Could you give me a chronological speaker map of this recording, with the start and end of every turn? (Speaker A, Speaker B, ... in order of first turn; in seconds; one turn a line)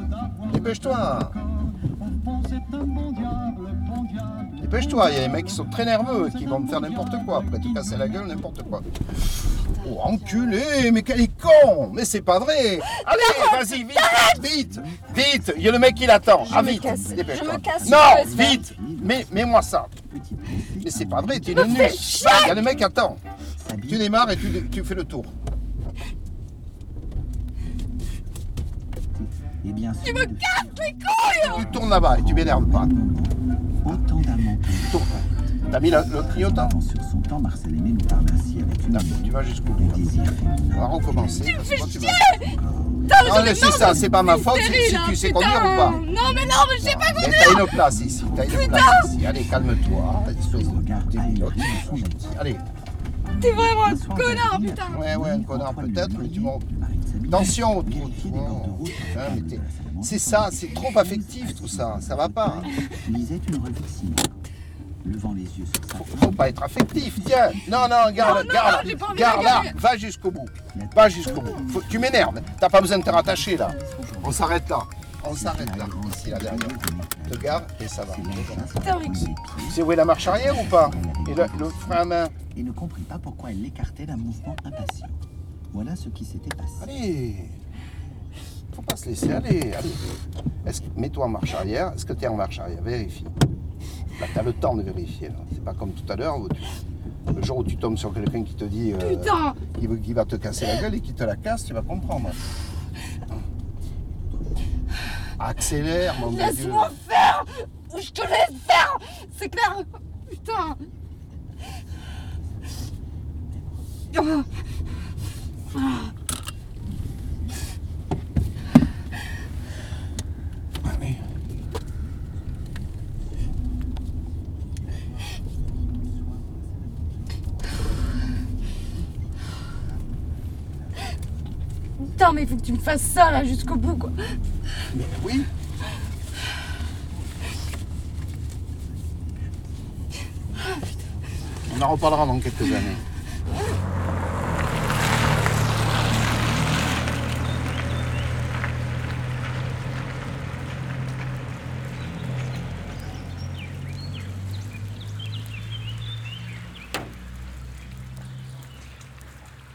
Speaker A: 0.5-1.4
Speaker A: 4.5-8.9
Speaker A: 9.8-19.9
Speaker B: 13.1-14.1
Speaker C: 14.4-19.3
Speaker B: 16.4-18.7
Speaker C: 20.0-21.9
Speaker A: 20.8-23.2
Speaker B: 21.6-22.6
Speaker C: 23.6-24.5
Speaker A: 23.9-25.3
Speaker C: 29.1-43.1
Speaker B: 30.8-31.5
Speaker A: 31.4-32.9
Speaker A: 34.9-35.1
Speaker A: 35.7-36.8
Speaker A: 38.9-40.1
Speaker A: 40.7-42.3
Speaker B: 41.5-42.3
Speaker B: 43.1-47.8
Speaker A: 43.2-46.0
Speaker A: 46.8-52.6
Speaker C: 47.9-48.7
Speaker B: 48.4-49.0
Speaker C: 49.3-52.4
Speaker C: 53.4-64.3
Speaker B: 53.4-55.0
Speaker A: 54.8-56.6
Speaker A: 57.3-62.7
Speaker C: 65.0-66.6
Speaker A: 65.9-78.7
Speaker C: 67.5-67.9
Speaker B: 68.2-69.7
Speaker C: 70.7-72.2
Speaker C: 72.9-74.5
Speaker C: 75.3-85.2
Speaker B: 78.8-79.2
Speaker A: 79.7-82.3
Speaker C: 85.7-86.9
Speaker A: 86.8-87.5
Speaker A: 88.7-90.0
Speaker A: 90.6-93.3
Speaker A: 94.2-96.8
Speaker A: 97.3-102.3
Speaker B: 99.0-99.6
Speaker A: 105.4-106.9
Speaker B: 106.3-110.8
Speaker B: 114.2-114.4
Speaker B: 132.0-134.1
Speaker A: 134.9-135.5
Speaker A: 141.7-143.0